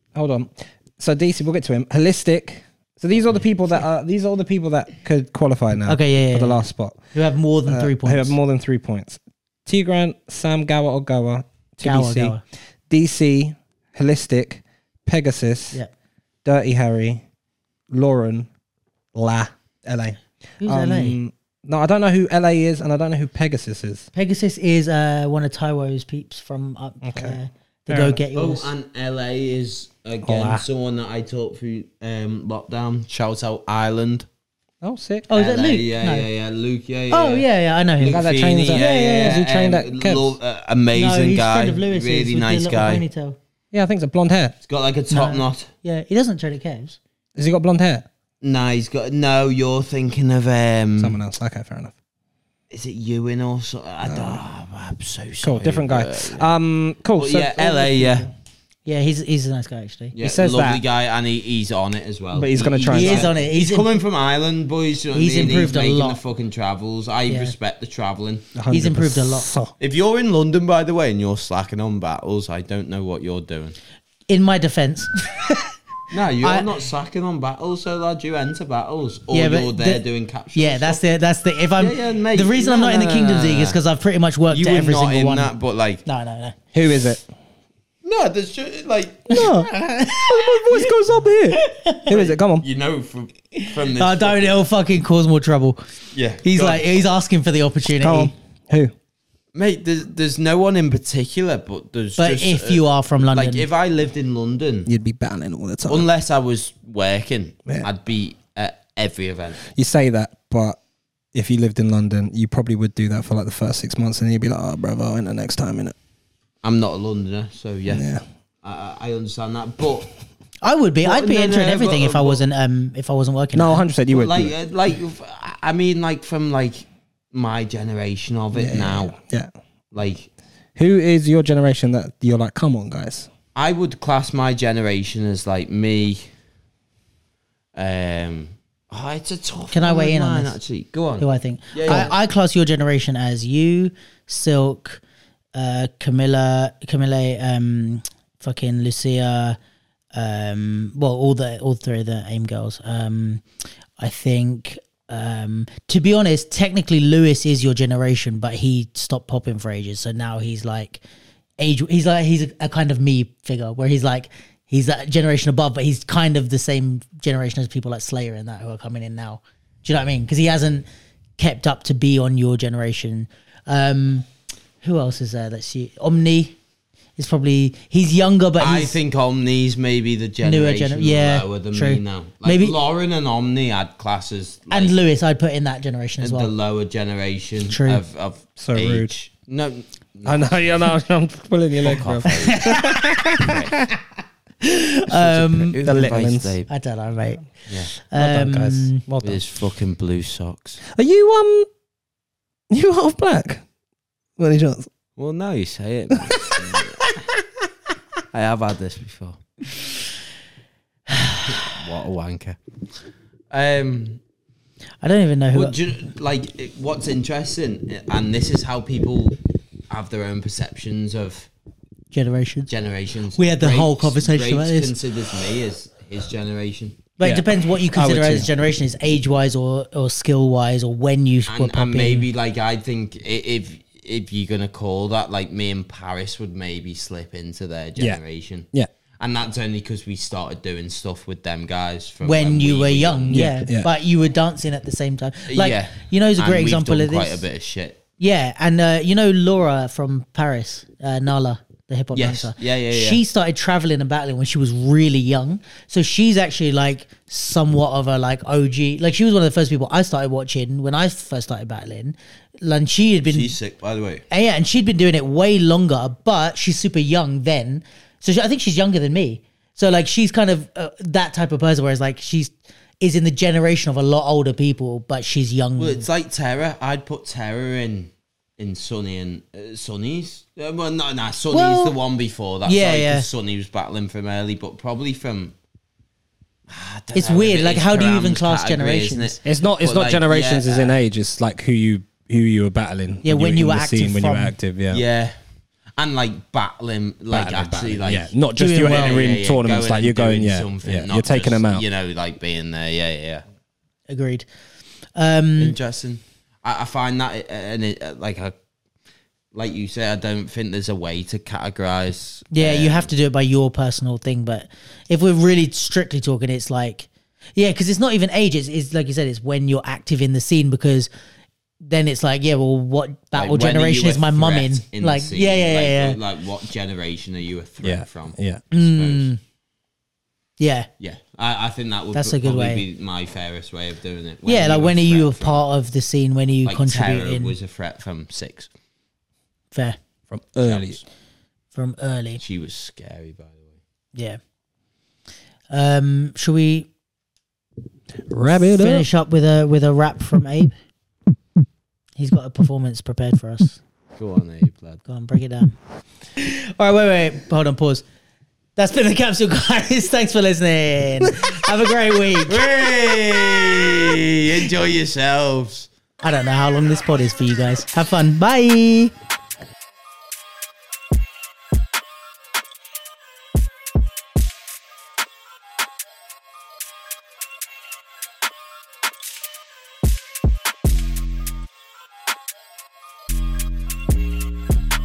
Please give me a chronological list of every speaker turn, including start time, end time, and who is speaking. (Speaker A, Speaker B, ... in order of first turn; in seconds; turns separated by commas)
Speaker A: 0.1-7.0, Speaker B: 5.9-8.4, Speaker A: 7.6-12.3, Speaker B: 11.8-12.4, Speaker A: 12.9-15.8, Speaker A: 16.4-17.2, Speaker A: 17.9-18.5, Speaker A: 19.1-24.1, Speaker B: 20.6-21.2, Speaker B: 24.1-28.7, Speaker A: 27.0-28.2, Speaker C: 28.3-34.3, Speaker A: 30.2-30.6, Speaker A: 34.8-35.3, Speaker B: 35.3-36.3, Speaker C: 35.3-37.4, Speaker B: 37.1-39.4, Speaker C: 38.0-43.0, Speaker A: 38.0-40.4, Speaker B: 40.9-43.4, Speaker A: 43.7-44.5, Speaker C: 44.6-45.7, Speaker B: 45.1-47.0, Speaker A: 47.4-48.1, Speaker C: 48.4-51.2, Speaker A: 51.0-51.9, Speaker C: 52.7-56.5, Speaker A: 54.0-54.4, Speaker A: 55.4-57.9, Speaker C: 57.2-58.3, Speaker B: 57.8-58.2, Speaker B: 58.9-60.1, Speaker C: 60.1-68.5, Speaker A: 60.2-60.8, Speaker A: 62.3-63.3, Speaker B: 62.9-63.9, Speaker B: 65.1-66.2, Speaker A: 68.5-69.7, Speaker B: 68.7-69.5, Speaker C: 69.8-73.8, Speaker B: 74.3-75.7, Speaker C: 76.1-81.0, Speaker B: 79.3-80.0, Speaker B: 80.5-85.5, Speaker C: 81.8-83.8, Speaker C: 84.5-86.0, Speaker B: 86.0-86.5, Speaker A: 86.7-87.3, Speaker C: 88.0-89.5, Speaker A: 89.3-92.7, Speaker B: 89.3-90.9, Speaker B: 91.5-92.1, Speaker C: 92.1-94.5, Speaker B: 93.6-95.8, Speaker C: 96.1-97.0, Speaker B: 96.4-98.3, Speaker A: 98.0-98.9, Speaker C: 99.5-104.9, Speaker B: 102.2-103.7, Speaker A: 104.8-106.0, Speaker C: 105.9-109.6, Speaker A: 109.6-110.8, Speaker A: 111.3-115.9, Speaker C: 116.6-118.0, Speaker A: 117.9-118.2, Speaker C: 118.6-120.1, Speaker B: 120.6-123.8, Speaker C: 121.0-122.4, Speaker A: 123.5-124.5, Speaker C: 124.1-129.1, Speaker A: 128.5-129.5, Speaker C: 129.9-130.3, Speaker A: 130.8-133.3, Speaker C: 133.5-136.3, Speaker C: 137.7-142.1, Speaker B: 139.7-140.6, Speaker B: 141.2-145.0, Speaker B: 145.5-149.6, Speaker B: 150.1-153.4, Speaker B: 154.0-161.0, Speaker B: 161.6-170.8, Speaker B: 171.4-174.2, Speaker B: 174.8-176.6, Speaker B: 177.2-179.0, Speaker C: 178.6-185.0, Speaker B: 180.4-182.8, Speaker B: 184.7-186.5, Speaker C: 186.2-190.9, Speaker B: 187.7-188.0, Speaker A: 188.6-189.1, Speaker A: 190.2-193.9, Speaker C: 191.8-192.6, Speaker B: 192.2-193.3, Speaker C: 193.4-193.8, Speaker B: 194.6-195.8, Speaker C: 195.1-196.7, Speaker A: 195.8-196.5, Speaker B: 196.7-199.0, Speaker C: 197.7-197.9, Speaker A: 198.2-199.4, Speaker C: 199.2-200.8, Speaker A: 200.9-201.7, Speaker A: 202.7-203.6, Speaker A: 204.4-204.9, Speaker C: 205.2-207.1, Speaker A: 206.2-207.1, Speaker C: 208.3-209.4, Speaker B: 211.1-211.6, Speaker C: 211.4-212.6, Speaker C: 213.5-214.2, Speaker B: 215.0-215.7, Speaker C: 215.5-219.4, Speaker C: 219.9-221.5, Speaker B: 222.1-222.7, Speaker C: 222.7-227.0, Speaker B: 223.3-225.0, Speaker B: 227.2-232.3, Speaker A: 227.2-228.5, Speaker C: 231.5-238.7, Speaker C: 239.2-243.6, Speaker B: 242.2-247.4, Speaker A: 243.3-243.9, Speaker C: 245.5-248.0, Speaker B: 248.2-263.5, Speaker C: 252.1-253.2, Speaker C: 263.2-264.2, Speaker B: 264.3-276.1, Speaker C: 275.8-285.6, Speaker B: 281.5-281.9, Speaker B: 282.6-283.3, Speaker C: 286.7-291.0, Speaker B: 287.1-289.4, Speaker A: 289.4-295.0, Speaker B: 293.2-294.5, Speaker C: 294.9-295.4, Speaker C: 296.0-303.4, Speaker A: 297.3-301.8, Speaker B: 298.6-299.4, Speaker B: 304.1-304.4, Speaker B: 305.1-305.8, Speaker C: 305.6-308.5, Speaker C: 309.5-313.1, Speaker B: 312.5-321.1, Speaker B: 321.8-326.2, Speaker C: 323.3-329.3, Speaker A: 327.8-328.6, Speaker B: 328.7-329.4, Speaker B: 330.6-330.9, Speaker C: 331.0-335.6, Speaker B: 332.1-332.8, Speaker B: 334.4-337.5, Speaker C: 336.6-338.7, Speaker B: 339.7-340.0, Speaker A: 340.3-341.0, Speaker C: 340.6-341.0, Speaker B: 341.7-342.4, Speaker C: 342.4-343.8, Speaker B: 345.7-346.9, Speaker A: 348.3-349.1, Speaker B: 348.6-350.7, Speaker B: 352.2-353.8, Speaker C: 354.2-355.0, Speaker B: 355.1-355.8, Speaker B: 356.4-358.0, Speaker B: 358.8-362.6, Speaker C: 362.4-365.9, Speaker B: 366.2-369.1